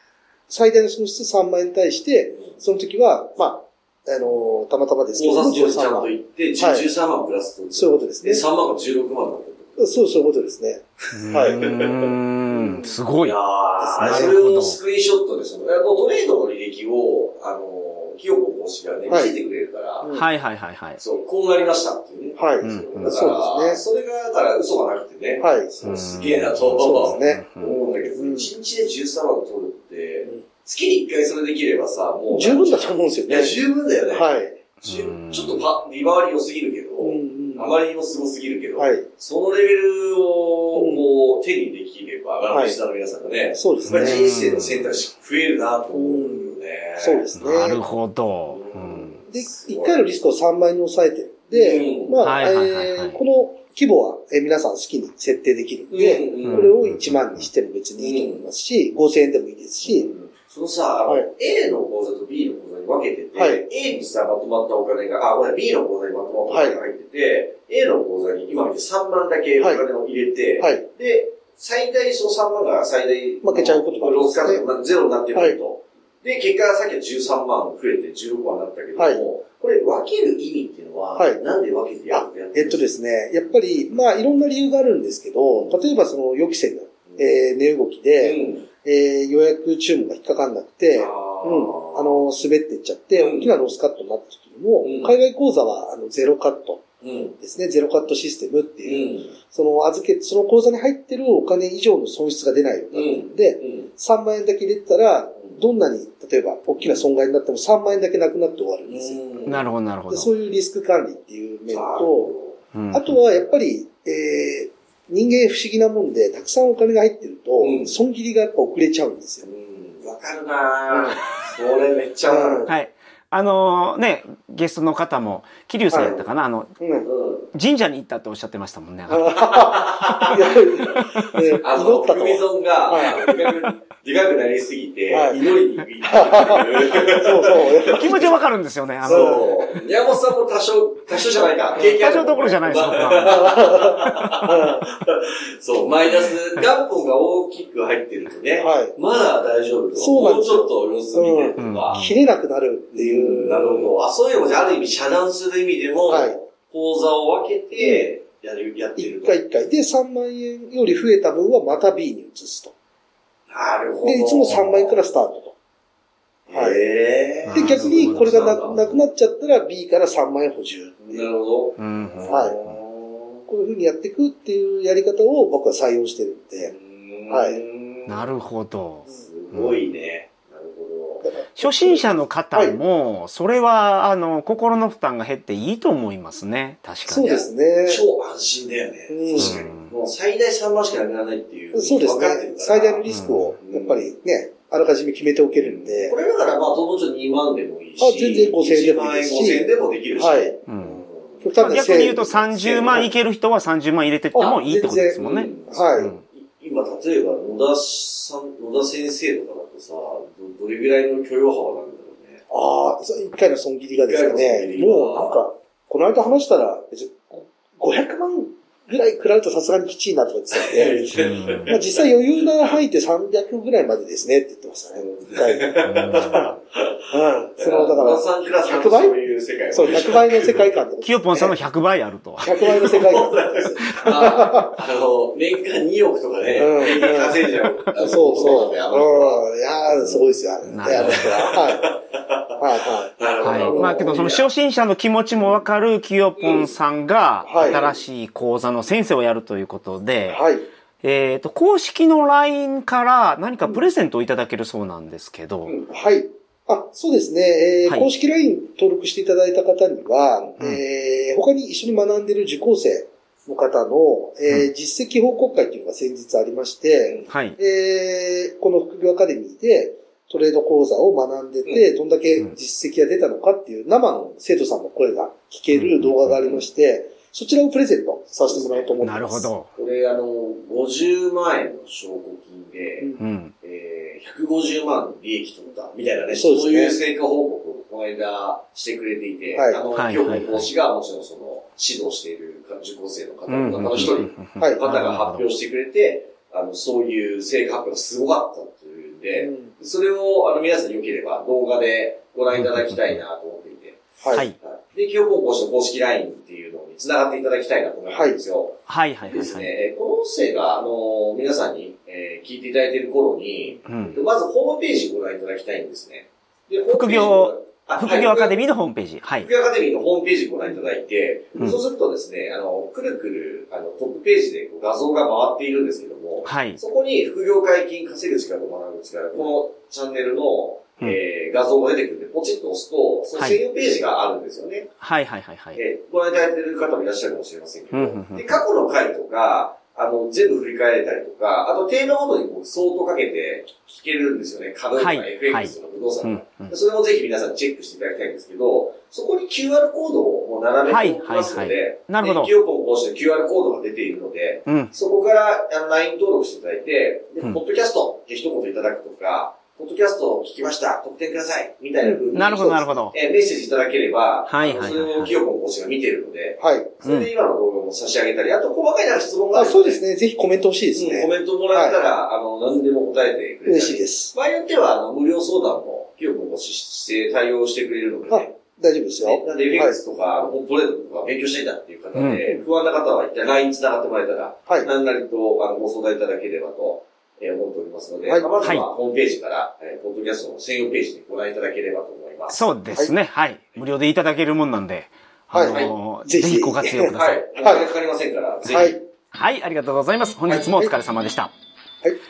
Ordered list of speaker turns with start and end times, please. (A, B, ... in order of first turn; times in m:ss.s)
0:00.5-0:06.9 A
0:05.1-0:09.9 B
0:07.7-0:08.4 A
0:09.8-0:11.6 A
0:11.1-0:20.1 B
0:11.1-0:13.4 C
0:13.8-0:14.4 A
0:14.0-0:14.8 C
0:19.1-0:19.4 A
0:20.0-0:20.3 A
0:20.1-0:21.0 C
0:21.0-0:34.3 B
0:22.4-0:23.8 A
0:22.6-0:23.3 C
0:25.4-0:25.7 A
0:25.8-0:27.8 C
0:26.7-0:27.4 A
0:28.2-0:28.5 A
0:32.3-0:33.6 A
0:34.1-0:34.6 A
0:34.8-0:47.3 B
0:34.8-0:35.6 C
0:37.0-0:37.7 A
0:38.8-0:39.1 A
0:40.7-0:41.1 A
0:42.5-0:42.8 A
0:43.5-0:44.3 A
0:43.9-0:44.9 C
0:45.9-0:47.8 A
0:47.4-0:49.2 C
0:48.5-0:50.0 B
0:49.3-1:00.1 A
0:51.5-0:52.2 B
0:52.2-0:53.2 C
0:55.9-0:56.7 B
0:56.5-0:57.5 C
0:58.0-0:58.4 B
0:59.8-1:22.8 B
1:03.4-1:03.6 A
1:06.5-1:06.8 A
1:09.6-1:09.8 A
1:13.4-1:14.6 A
1:19.0-1:19.2 A
1:21.2-1:21.4 A
1:22.1-1:36.8 A
1:25.5-1:25.8 B
1:28.2-1:28.6 B
1:30.9-1:32.2 B
1:33.1-1:33.5 B
1:34.8-1:35.2 B
1:37.0-1:37.4 B
1:37.4-1:49.4 A
1:38.8-1:39.4 B
1:42.9-1:43.9 B
1:48.9-1:49.7 B
1:49.5-1:50.3 C
1:50.1-1:52.3 A
1:51.7-1:52.6 B
1:52.7-1:53.2 C
1:52.9-1:59.4 A
1:57.6-1:57.9 B
1:59.4-2:02.7 B
2:00.9-2:01.2 A
2:02.2-2:02.7 A
2:02.7-2:06.8 C
2:05.9-2:06.2 A
2:06.0-2:06.2 B
2:06.8-2:07.1 A
2:07.0-2:07.5 B
2:07.5-2:09.7 C
2:09.1-2:13.4 A
2:09.4-2:10.6 B
2:10.9-2:11.6 C
2:11.6-2:18.3 B
2:15.1-2:15.4 A
2:16.0-2:18.4 A
2:17.9-2:19.8 C
2:19.0-2:32.0 B
2:19.0-2:19.4 A
2:21.8-2:22.5 A
2:21.8-2:23.7 C
2:23.1-2:24.9 A
2:28.6-2:28.9 A
2:30.0-2:33.9 A
2:31.6-2:32.2 C
2:32.9-2:39.4 B
2:36.1-2:36.4 A
2:37.8-2:38.1 A
2:39.0-2:42.7 A
2:43.5-2:45.0 B
2:44.0-2:45.5 A
2:46.5-2:49.0 B
2:46.5-2:46.8 A
2:47.4-2:49.0 C
2:47.5-2:51.3 A
2:51.1-2:53.4 B
2:51.8-2:52.8 C
2:52.3-2:52.5 A
2:53.5-2:56.7 A
2:56.6-2:58.3 B
2:57.3-2:57.6 A
2:58.1-2:59.9 C
2:59.0-3:01.3 B
3:01.2-3:02.8 A
3:01.6-3:07.4 C
3:07.1-3:08.0 A
3:07.1-3:14.1 B
3:09.1-3:09.6 A
3:09.4-3:09.9 C
3:11.7-3:16.1 A
3:13.1-3:13.6 C
3:15.5-3:21.7 B
3:18.0-3:20.5 A
3:20.7-3:21.0 C
3:21.4-3:23.1 A
3:21.6-3:26.2 C
3:22.6-3:23.1 B
3:24.3-3:26.1 A
3:25.2-3:32.4 B
3:32.5-3:41.0 A
3:33.9-3:35.4 B
3:40.5-3:42.0 B
3:41.1-3:41.8 C
3:41.6-3:46.5 A
3:45.0-3:50.7 B
3:45.8-3:46.5 C
3:47.1-3:49.2 A
3:49.7-3:51.6 A
3:51.0-3:52.8 C
3:52.4-3:54.8 A
3:52.6-4:04.5 B
3:53.9-3:54.2 C
3:56.6-4:01.9 A
4:00.7-4:01.5 C
4:02.6-4:04.1 A
4:03.4-4:10.4 C
4:06.4-4:06.7 B
4:07.4-4:07.9 A
4:07.5-4:08.0 B
4:10.3-4:10.6 A
4:11.0-4:15.7 C
4:15.6-4:15.9 B
4:15.9-4:39.5 A
4:27.3-4:27.6 C
4:31.6-4:31.9 B
4:35.7-4:36.4 C
4:38.5-4:38.9 B
4:39.0-4:39.7 C
4:39.7-4:43.1 B
4:43.2-4:43.5 C
4:43.6-5:04.0 B
4:46.3-4:47.0 A
4:49.5-4:49.8 A
4:49.9-4:50.7 C
4:53.5-4:55.4 C
4:59.4-4:59.7 A
5:02.5-5:03.2 C
5:04.2-5:04.4 A
5:04.5-5:18.6 B
5:08.1-5:08.4 A
5:08.9-5:09.7 C
5:13.9-5:14.2 C
5:16.9-5:19.5 C
5:19.4-5:34.9 B
5:26.4-5:26.8 C
5:33.4-5:33.6 C
5:35.0-5:35.8 C
5:35.7-6:10.0 B
5:37.9-5:38.6 C
5:45.0-5:46.7 C
5:50.9-5:52.5 C
5:54.6-5:54.9 C
6:02.0-6:03.0 A
6:02.3-6:03.1 C
6:04.5-6:05.4 C
6:06.6-6:06.9 A
6:07.0-6:07.3 C
6:09.5-6:12.0 A
6:11.0-6:18.6 B
6:13.6-6:14.3 A
6:18.3-6:20.0 A
6:19.2-6:32.7 B
6:22.1-6:22.4 C
6:28.6-6:28.9 C
6:32.5-6:37.4 C
6:35.5-6:37.9 A
6:37.0-6:39.0 B
6:38.6-6:39.0 A
6:38.7-6:41.5 C
6:40.5-6:40.9 A